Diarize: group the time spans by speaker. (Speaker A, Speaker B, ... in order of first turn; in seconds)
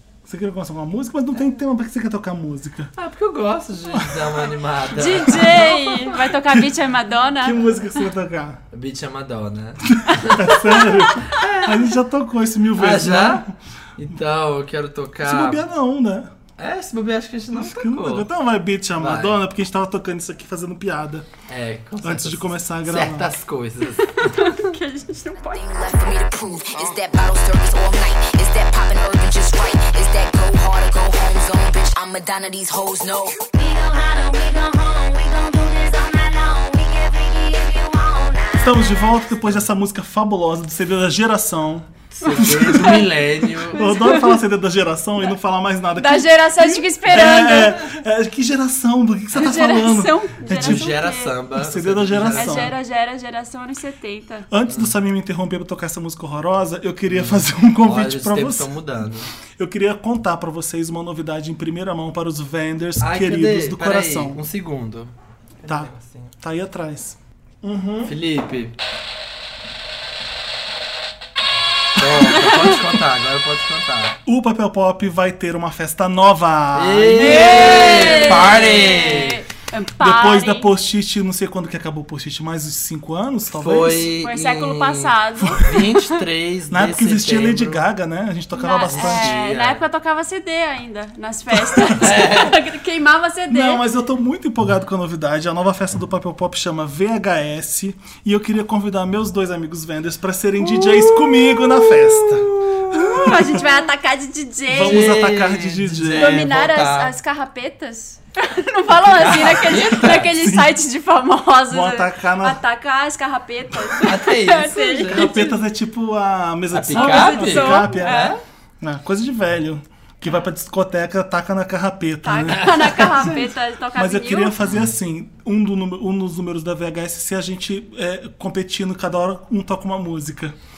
Speaker A: 0.2-2.9, 3.9-4.5, 5.1-6.6, 7.4-8.6, 10.0-13.5, 15.2-16.3, 17.5-21.3, 22.0-23.3, 38.6-50.9, 51.5-52.7, 54.5-58.7, 59.6-64.4, 65.7-68.2, 74.2-78.7, 80.0-84.1, 85.4-85.8, 86.7-89.4, 91.6-92.1, 93.5-103.6, 104.7-106.5, 110.2-110.8, 111.7-112.6, 115.0-130.5
Speaker B: 3.0-5.7, 8.7-10.6, 11.3-11.9, 12.8-15.6, 16.6-18.3, 19.0-19.4, 21.5-24.6, 42.1-43.9, 50.5-52.7, 57.1-59.3, 63.0-66.3, 68.0-68.7, 72.0-74.2, 76.7-79.4, 83.5-87.8, 88.8-89.8, 92.0-92.5, 100.6-103.3, 104.8-107.1, 109.0-110.3, 114.0-115.3, 116.7-118.4, 122.5-123.2, 124.6-124.9
Speaker C: 5.0-8.0, 10.7-11.4, 24.0-25.9, 42.2-43.1, 43.7-44.4, 46.0-47.8, 49.3-51.4, 52.3-54.5, 77.2-80.7, 84.2-86.1, 88.5-93.8, 102.9-105.1, 106.1-115.6, 116.9-118.3, 122.2-124.5
Speaker D: 25.5-33.5
Speaker E: 33.6-38.8